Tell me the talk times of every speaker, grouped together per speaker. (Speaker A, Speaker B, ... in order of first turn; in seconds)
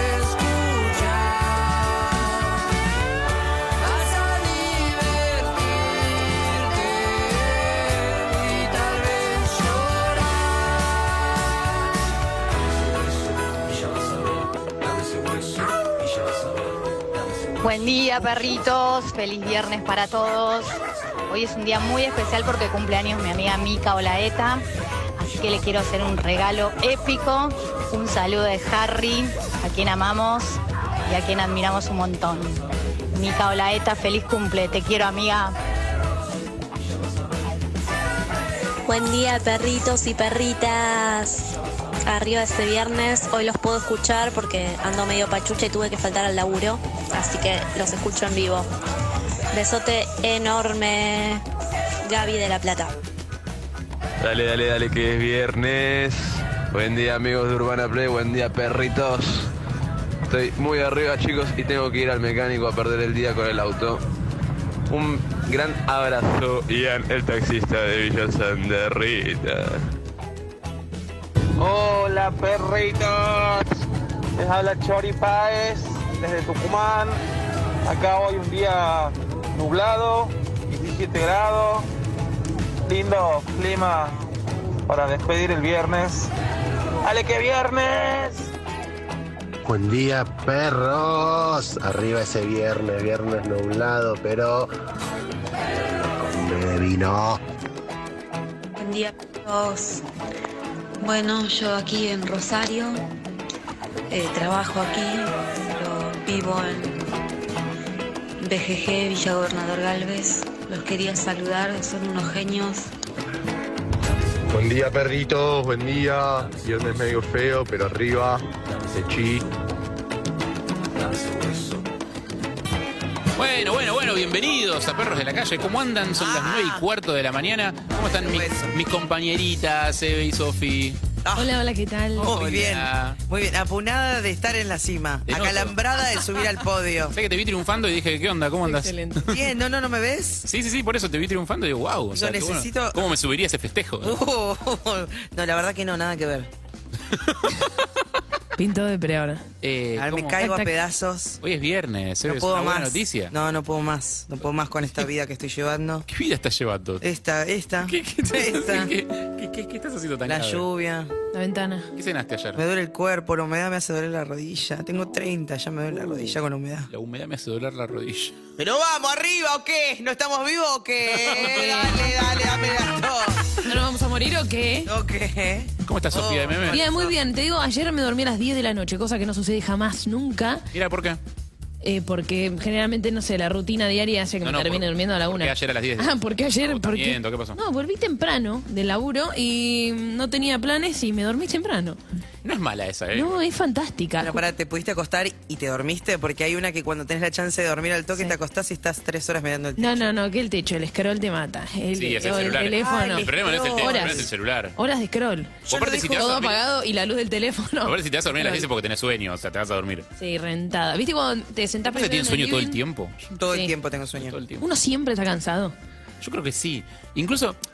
Speaker A: 17.6-20.8, 21.3-24.6, 25.2-32.6, 33.1-35.5
Speaker B: 38.9-41.5, 42.1-48.7, 49.5-51.4, 52.0-53.0
Speaker C: 54.2-59.5, 60.3-64.0, 64.9-69.9
Speaker D: 71.6-73.7, 74.3-77.2, 77.8-81.9, 82.9-84.2, 84.9-86.3, 87.0-88.5
Speaker E: 89.6-94.7, 95.7-97.4, 114.5-115.5, 116.2-116.7
Speaker F: 98.8-100.0, 101.0-103.0, 104.1-107.1, 108.4-112.9
Speaker G: 114.5-118.4, 119.0-119.4
Speaker H: 123.3-131.0, 132.2-133.2, 135.3-135.7, 137.1-139.4, 140.4-144.2, 147.1-147.7, 149.6-150.4, 151.4-153.3, 156.1-157.0, 157.8-160.7, 161.9-162.6, 166.9-168.3, 171.1-171.8, 175.8-176.8, 180.7-181.2, 184.4-187.6, 192.4-193.3, 201.9-204.8, 205.7-206.6, 207.8-210.1, 211.9-213.3, 214.1-214.7, 216.2-217.6
Speaker I: 126.2-126.8, 128.2-128.7, 131.2-131.5, 132.2-137.1, 139.3-140.4, 142.1-143.0, 144.0-146.5, 149.9-151.4, 152.2-156.1, 157.0-158.9, 160.3-161.1, 162.6-166.9, 168.6-173.7, 174.9-177.1, 194.2-200.1, 202.7-204.3, 205.7-206.4, 213.4-214.4
Speaker J: 131.3-132.3, 138.6-139.3, 148.6-149.4, 150.4-150.7, 161.3-161.9, 171.6-172.1, 173.6-174.9, 176.7-180.7, 181.8-192.0, 193.1-194.4, 199.8-205.6, 206.2-208.7, 210.2-212.8, 214.6-215.7